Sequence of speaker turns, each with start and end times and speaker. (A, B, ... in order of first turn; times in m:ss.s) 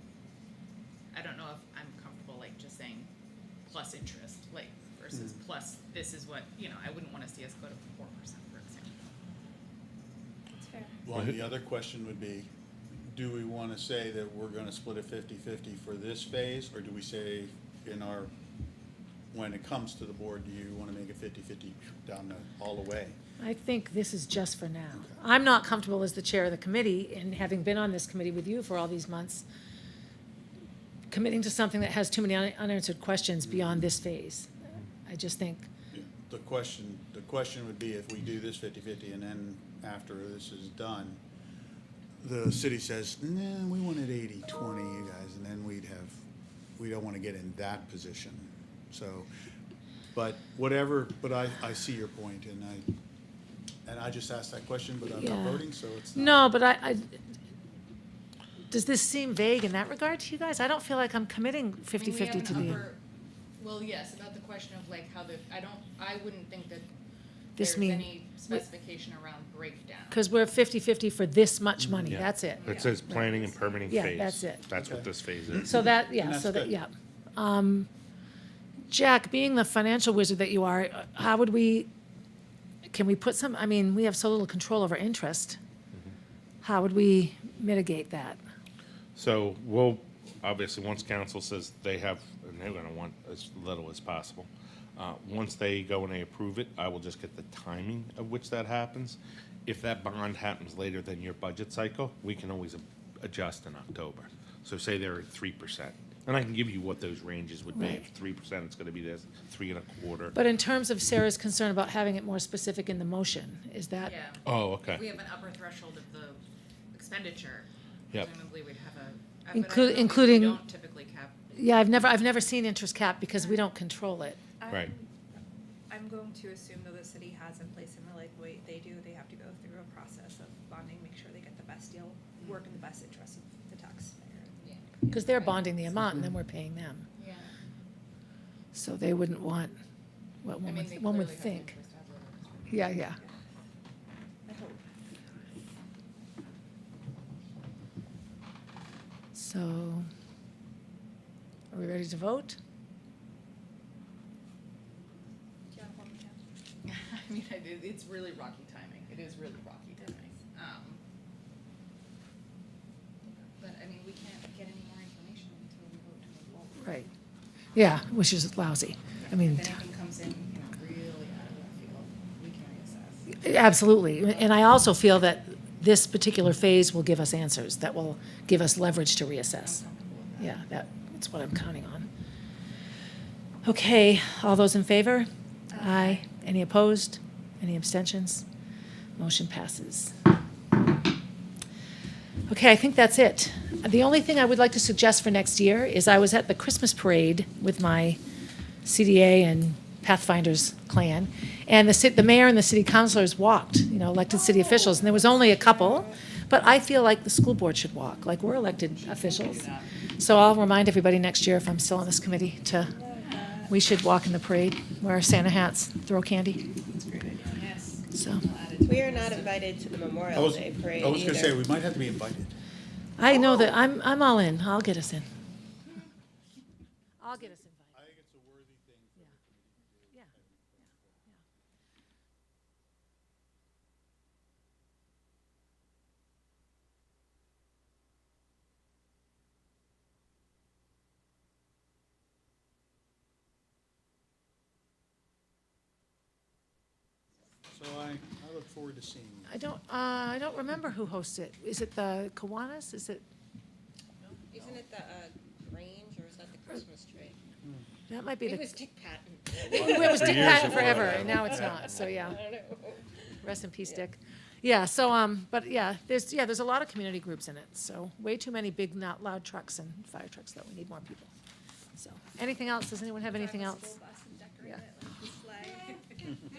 0:01.1-0:03.1 A
0:03.7-0:09.1 A
0:10.6-0:11.0 B
0:11.0-0:12.5 C
0:13.0-0:18.3 C
0:19.3-0:23.2 C
0:23.4-0:29.4 D
0:31.1-0:35.7 D
0:33.4-0:33.8 C
0:35.9-0:41.2 C
0:42.2-0:46.2 C
0:46.8-0:49.3 C
0:50.1-0:52.9 C
0:53.8-0:56.5 C
0:55.2-0:55.6 D
0:56.2-0:57.2 D
0:58.7-1:02.8 D
1:01.9-1:03.0 A
1:03.6-1:06.9 A
1:07.6-1:08.5 D
1:07.6-1:10.3 A
1:10.1-1:12.7 D
1:12.0-1:15.7 E
1:13.9-1:14.6 D
1:14.8-1:16.8 C
1:15.6-1:17.9 D
1:18.9-1:21.9 D
1:22.9-1:25.6 D
1:26.6-1:28.4 D
1:29.2-1:50.4 E
1:47.7-1:48.0 D
1:50.3-1:54.1 D
1:54.0-2:01.4 A
1:54.4-1:55.0 E
1:59.5-2:00.6 D
2:01.5-2:04.4 D
2:04.6-2:05.1 B
2:05.9-2:15.6 B
2:15.1-2:17.1 D
2:17.2-2:17.5 A
2:18.7-2:19.8 D
2:20.4-2:21.7 D
2:20.6-2:23.3 A
2:22.7-2:23.2 D
2:24.5-2:24.8 A
2:24.5-2:24.8 B
2:29.3-2:30.1 D
2:31.7-2:32.6 D
2:35.7-2:36.4 B
2:36.8-2:41.0 A
2:43.6-2:47.0 A
2:46.8-2:47.1 D
2:47.7-2:49.7 D
2:49.2-2:53.5 A
2:53.3-2:59.8 D
2:59.6-3:00.6 A
3:00.4-3:02.1 D
3:03.6-3:08.4 D
3:09.2-3:10.1 D
3:12.5-3:18.2 D
3:18.8-3:29.7 D
3:29.0-3:29.9 A
3:30.2-3:32.9 D
3:33.2-3:33.6 B
3:33.7-3:36.6 D
3:36.9-3:39.6 A
3:37.0-3:37.4 B
3:38.1-3:38.4 D
3:38.8-3:41.6 F
3:40.3-3:42.6 C
3:43.2-3:45.3 D
3:47.2-3:48.0 D
3:47.9-3:51.2 C
4:07.7-4:09.5 C
4:09.5-4:13.2 D
4:14.5-4:17.4 F
4:18.1-4:18.8 D
4:18.5-4:23.0 F
4:19.7-4:22.4 D
4:20.0-4:22.1 E
4:23.4-4:31.3 D
4:31.9-4:33.9 D
4:33.2-4:36.4 B